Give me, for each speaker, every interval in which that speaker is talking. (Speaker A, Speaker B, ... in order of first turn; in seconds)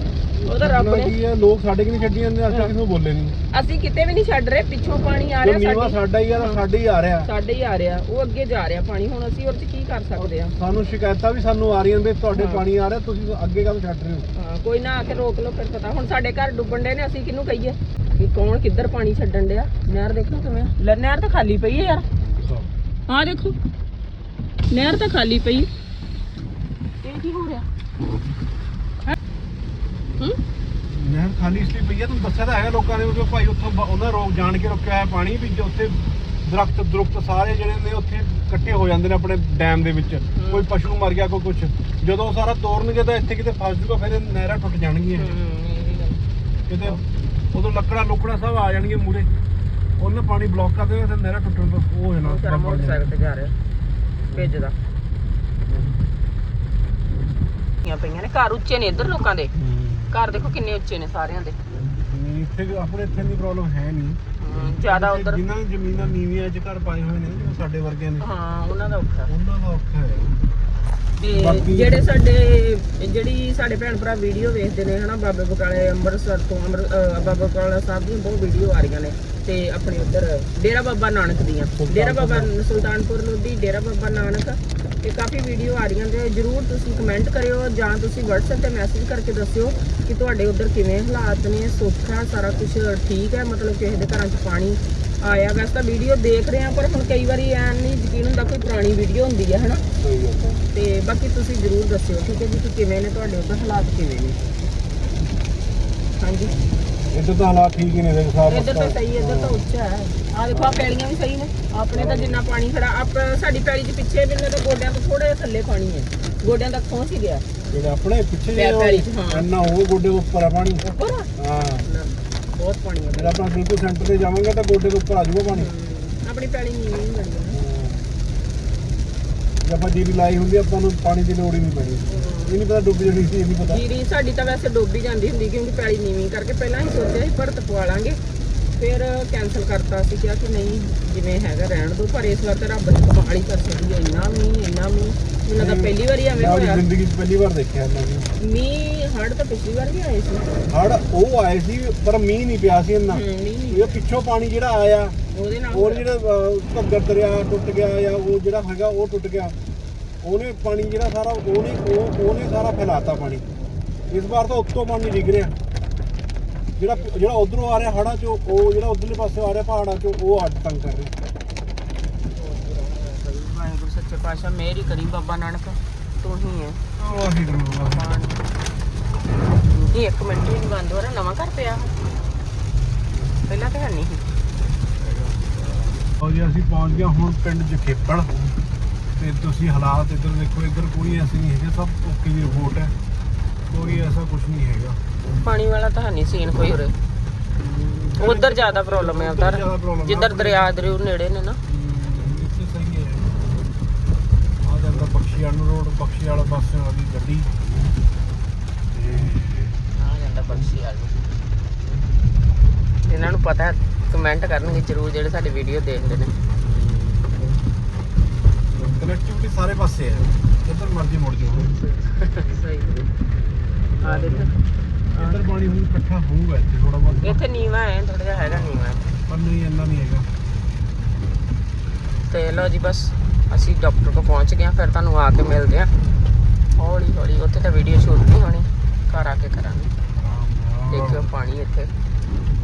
Speaker A: 0.4-3.4, 5.4-7.3, 10.1-14.3, 22.2-22.7, 30.9-45.3, 46.7-49.3, 50.0-53.1, 59.5-60.3, 61.8-68.3, 69.3-70.3, 71.3-72.1, 81.8-82.6, 100.0-100.6, 107.1-109.6, 110.5-110.9, 111.9-112.5, 117.7-120.8, 121.4-121.9, 123.1-125.7, 127.5-128.2, 129.6-133.8, 145.5-148.3, 150.7-155.2, 155.7-159.6, 160.2-163.5, 164.1-165.6, 166.8-171.1, 177.0-178.1, 185.0-188.3, 189.2-192.9, 193.7-195.0, 197.6-201.0, 201.7-203.5, 204.6-207.5, 208.9-209.8, 216.6-217.4, 218.8-221.7, 224.0-224.5, 225.1-227.5, 228.4-230.3, 240.1-241.3
Speaker B: 0.5-1.1, 3.5-6.6, 7.2-10.5, 12.3-12.6, 14.3-22.1, 23.1-23.6, 24.7-25.7, 27.0-27.7, 40.3-40.6, 45.1-46.2, 52.2-53.5, 54.3-54.8, 57.8-59.5, 60.1-61.6, 64.4-65.4, 68.2-69.3, 71.2-99.8, 100.6-104.4, 106.2-106.6, 108.5-117.5, 118.5-119.5, 120.8-121.3, 121.8-123.4, 125.5-127.6, 132.1-132.6, 133.7-138.2, 138.8-146.8, 148.4-150.5, 153.1-154.0, 155.3-156.1, 172.3-176.8, 177.8-178.4, 179.6-181.9, 183.4-184.2, 195.4-196.9, 198.2-201.6, 209.9-211.2, 213.0-216.3, 221.6-223.1, 224.0-224.6, 225.1-225.4, 227.2-229.2, 232.2-235.9, 236.8-239.9, 240.9-241.9